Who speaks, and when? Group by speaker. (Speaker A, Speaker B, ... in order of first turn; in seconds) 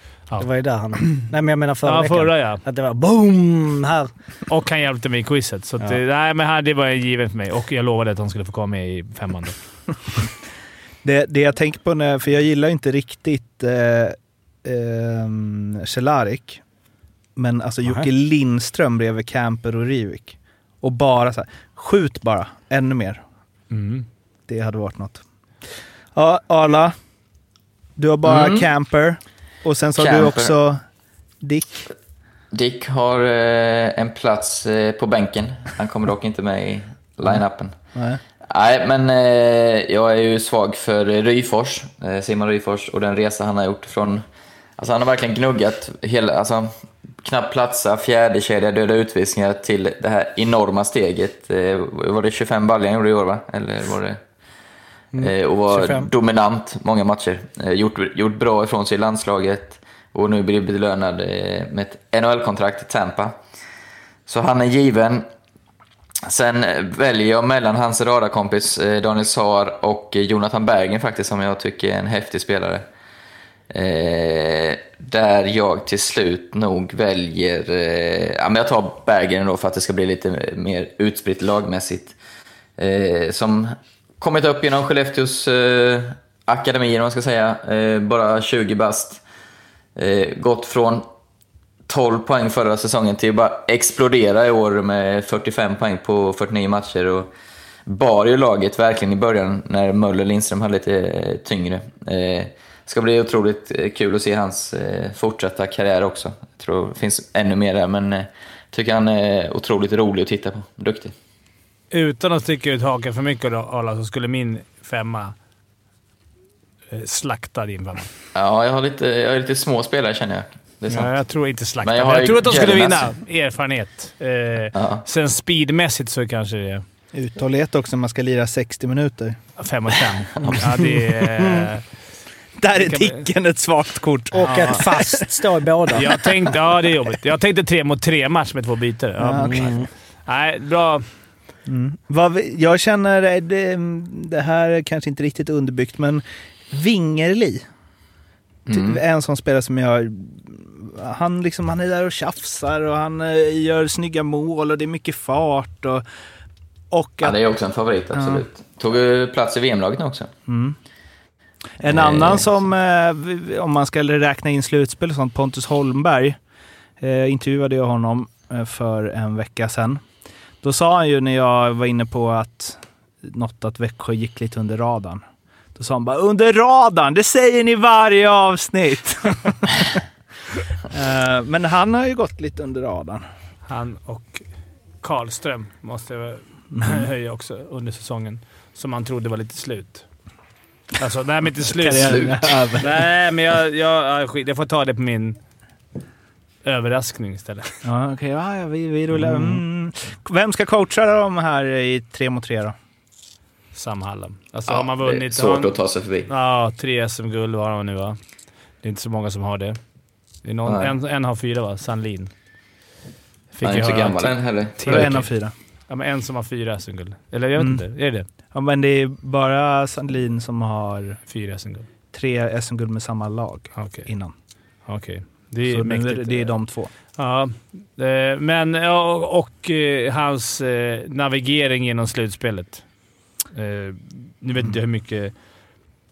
Speaker A: 0.4-4.1, 55.1-56.1, 134.3-136.2, 139.3-139.9
Speaker B: 1.8-2.6, 4.5-9.6, 23.7-24.1, 111.9-115.3, 116.9-118.1, 120.9-126.8, 129.6-131.8, 132.8-133.2, 134.4-134.8, 135.9-139.7, 140.2-141.0, 183.7-184.4, 185.0-190.1, 191.0-192.2, 192.8-195.4, 196.6-197.7, 199.2-199.5, 203.7-205.7, 206.3-208.2, 208.8-209.8, 210.4-212.3, 213.5-215.3, 215.9-218.3, 221.3-221.8, 223.8-224.1, 224.9-226.5, 227.2-232.8, 233.5-235.3
Speaker C: 11.0-16.6, 17.4-23.2, 24.5-25.2, 26.1-26.9, 28.0-30.8, 31.4-31.8, 37.9-38.2, 127.1-129.4, 130.4-131.7, 132.6-135.3, 139.2-139.8, 141.7-147.6, 148.7-156.0, 156.9-157.4, 158.1-158.4, 160.5-160.8, 161.8-166.4, 167.0-170.0, 170.6-175.2, 175.8-180.0, 180.9-183.2, 186.7-187.0, 191.7-192.9, 197.8-202.7, 214.8-215.5, 217.6-217.8, 218.5-221.2, 222.1-224.3, 225.7-226.9
Speaker D: 28.2-28.7, 30.0-30.6, 32.5-37.7, 38.5-44.2, 44.8-54.2, 55.2-63.4, 64.2-65.2, 66.2-72.8, 73.7-82.2, 82.8-89.2, 90.0-91.0, 91.9-97.3, 97.9-111.1, 118.3-121.1, 121.8-123.1, 124.7-125.0, 148.7-149.0, 157.2-160.3, 161.8-162.4, 192.0-192.4, 204.7-206.3, 210.7-210.9, 213.6-215.2